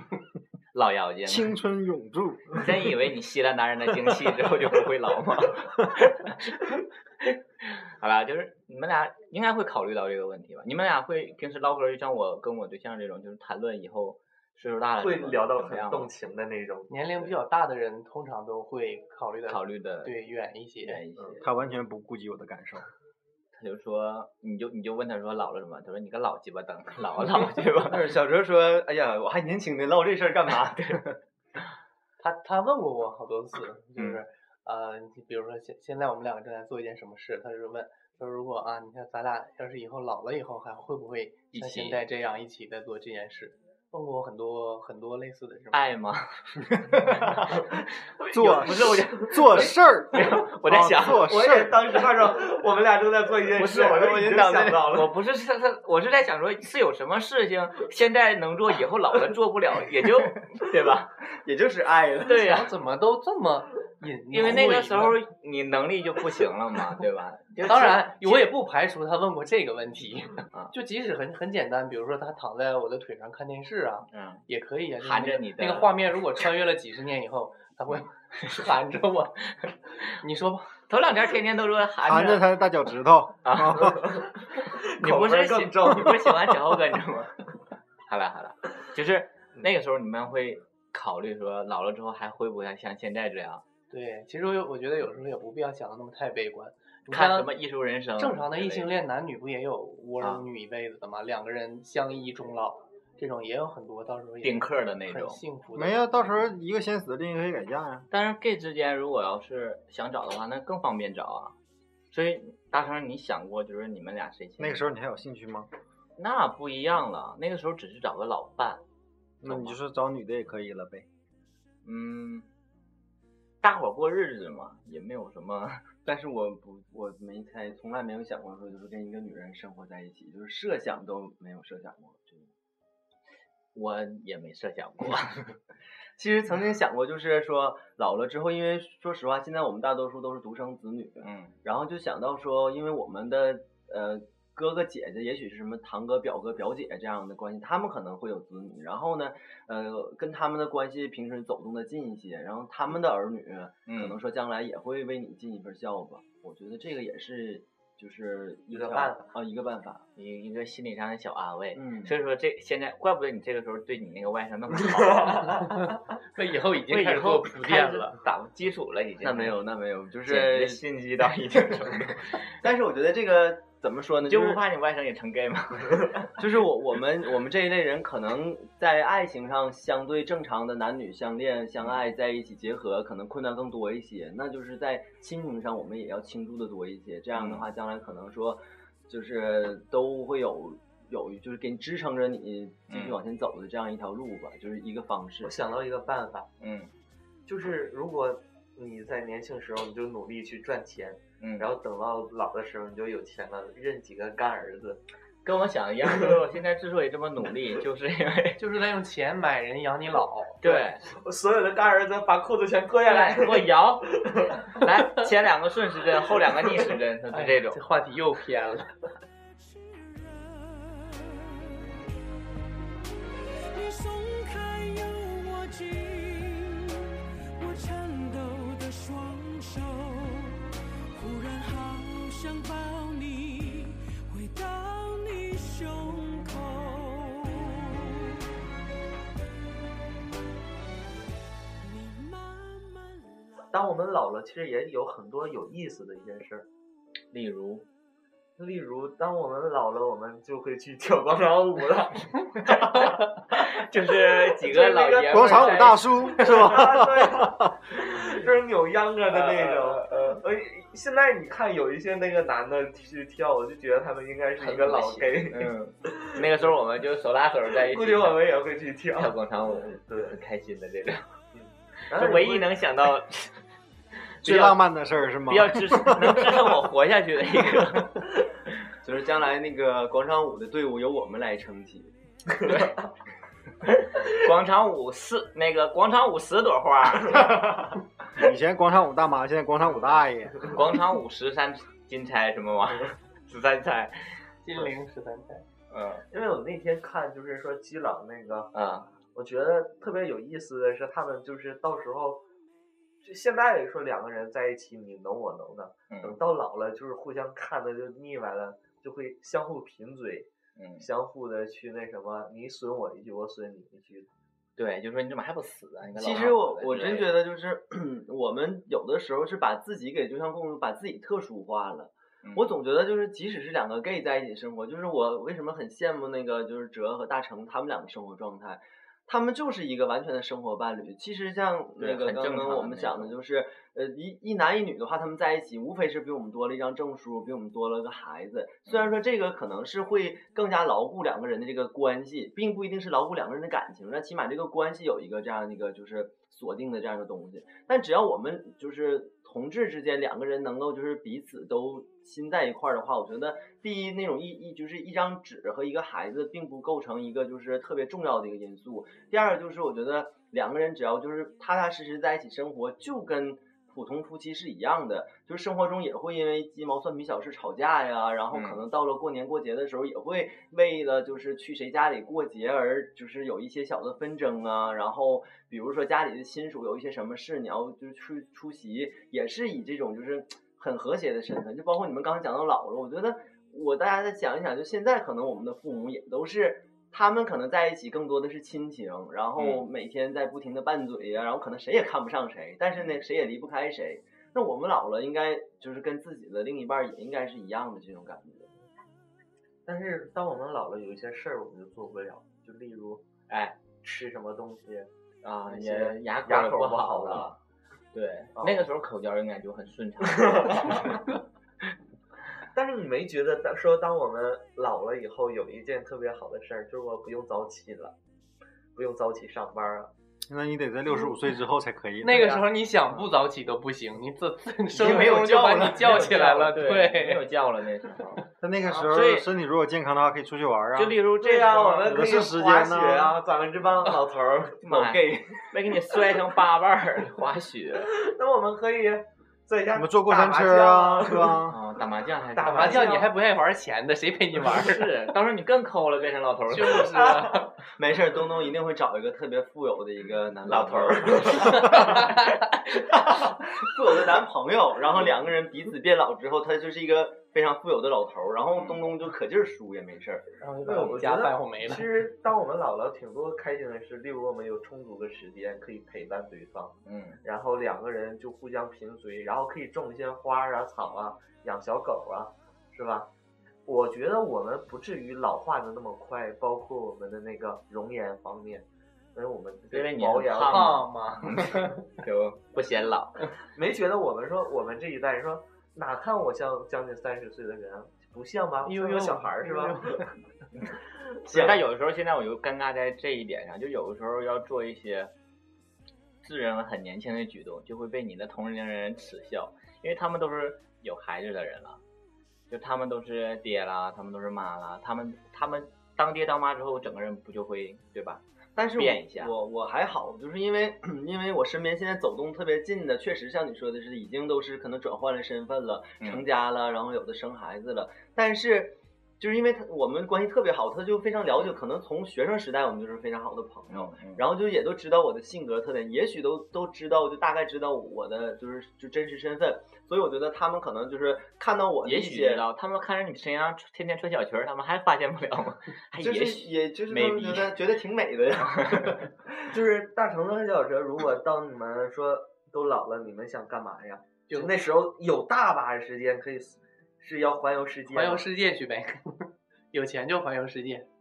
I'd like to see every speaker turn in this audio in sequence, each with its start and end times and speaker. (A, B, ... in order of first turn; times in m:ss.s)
0:00.7-0:01.5 A
0:01.2-0:02.7 B
0:02.5-0:16.1 A
0:15.0-0:16.9 C
0:16.9-0:21.0 D
0:19.5-0:20.1 A
0:20.8-0:21.4 A
0:21.2-0:21.4 C
0:21.4-0:22.8 B
0:23.5-0:28.0 A
0:27.8-0:31.2 E
0:32.2-0:45.9 D
0:41.5-0:42.0 A
0:45.7-0:51.3 A
0:48.3-0:51.8 B
0:51.1-0:55.1 C
0:53.6-0:54.2 A
0:53.7-0:54.8 E
0:54.8-1:01.1 A
1:01.3-1:02.4 E
1:02.2-1:02.7 A
1:02.4-1:05.2 D
1:04.3-1:08.4 A
1:07.6-1:20.7 D
1:14.1-1:14.4 A
1:15.0-1:15.9 A
1:20.9-1:22.5 A
1:22.0-1:24.1 B
1:23.4-1:27.3 A
1:23.9-1:26.4 C
1:28.0-1:33.6 A
1:33.9-1:37.5 D
1:37.1-1:39.0 A
1:38.2-1:46.5 D
1:40.2-1:40.4 A
1:44.4-1:45.4 A
1:45.7-1:48.1 B
1:48.1-1:51.5 A
1:52.1-1:54.8 A
1:54.6-1:55.7 B
1:56.2-1:58.8 A
1:59.4-2:01.1 B
1:59.4-1:59.8 A
2:01.8-2:02.5 A
2:03.6-2:05.9 A
2:06.0-2:12.5 E
2:13.7-2:15.6 A
2:16.2-2:40.0 E
2:21.2-2:21.5 A
2:33.9-2:34.2 A
2:38.7-2:39.4 C
2:40.2-2:45.7 A
2:41.7-2:42.1 E
2:45.2-2:45.6 C
2:45.6-2:48.2 D
2:46.9-2:49.6 A
2:49.2-2:50.8 E
2:50.2-2:52.5 A
2:52.6-2:54.6 E
2:54.2-2:56.3 A
2:56.4-3:15.5 E
3:07.3-3:07.6 A
3:12.9-3:13.2 A
3:15.4-3:16.5 C
3:16.6-3:16.9 A
3:17.4-3:25.0 C
3:21.4-3:21.7 A
3:25.4-3:28.6 A
3:28.6-3:30.6 D
3:30.6-3:31.0 A
3:30.7-3:34.6 C
3:33.0-3:37.8 A
3:37.3-3:39.0 D
3:39.6-3:41.5 F
3:43.7-3:47.0 F
3:47.6-3:58.1 F
4:01.8-4:03.5 F
4:03.7-4:06.7 C
4:07.3-4:07.8 A
4:08.6-4:13.2 C
4:13.5-4:16.7 A
4:14.5-4:26.4 C
4:15.3-4:17.7 B
4:19.3-4:20.4 A
4:24.6-4:28.5 A
4:27.8-4:30.4 C
4:29.1-4:31.2 A
4:31.5-4:32.7 C
4:32.1-4:33.6 A
4:34.4-4:34.8 A
4:34.4-4:36.6 B
4:35.4-4:38.3 A
4:39.0-4:42.1 E
4:43.8-4:47.9 A
4:48.4-4:50.7 B
4:50.6-4:54.4 A
4:54.6-4:55.6 D
4:55.9-4:56.2 A
4:56.3-4:58.7 C
4:58.7-4:59.1 A
4:59.3-5:02.4 C
5:03.2-5:14.3 C
5:06.1-5:06.4 A
5:10.8-5:11.1 A
5:14.8-5:17.3 A
5:16.2-6:38.7 E
5:22.4-5:22.7 A
5:32.0-5:33.4 A
6:08.5-6:08.8 A
6:29.6-6:29.8 A
6:39.8-6:43.2 C
6:43.5-6:43.8 A
6:44.0-6:45.1 C
6:45.4-6:47.6 A
6:45.7-6:47.5 C
6:48.1-6:51.2 A
6:48.6-6:48.9 C
6:50.3-6:51.0 C
6:52.7-6:58.2 C
6:58.9-7:00.1 C
7:00.5-7:02.5 B
7:02.2-7:07.4 D
7:02.2-7:02.6 A
7:04.9-7:06.2 E
7:05.0-7:08.4 A
7:08.6-7:11.2 B
7:09.1-7:09.5 A
7:10.9-7:12.3 A
7:11.4-7:14.8 C
7:12.0-7:13.4 B
7:14.8-7:18.1 A
7:14.9-7:15.4 E
7:18.0-7:21.7 C
7:19.9-7:21.8 B
7:21.6-7:23.1 A
7:22.5-7:23.3 C
7:22.6-7:25.1 D
7:24.6-7:27.1 A
7:26.7-7:27.8 D
7:27.9-7:32.3 E
7:30.7-7:32.3 A
7:33.3-7:40.5 E
7:38.7-7:39.1 A
7:40.6-7:42.1 D
7:40.8-7:53.3 C
7:47.0-7:47.4 A
7:53.8-8:01.0 C
7:59.9-8:03.5 A
8:00.7-8:02.0 D
8:03.7-8:10.2 C
8:08.8-8:10.2 D
8:11.3-8:11.8 C
8:11.5-8:15.3 A
8:16.4-8:22.0 A
8:22.7-8:28.4 A
8:28.8-8:52.6 E
8:29.0-8:29.5 A
8:43.9-8:44.4 A
8:52.0-8:57.8 A
8:56.2-8:59.3 E
8:58.8-8:59.1 A
8:59.7-9:08.5 C
9:08.1-9:11.1 D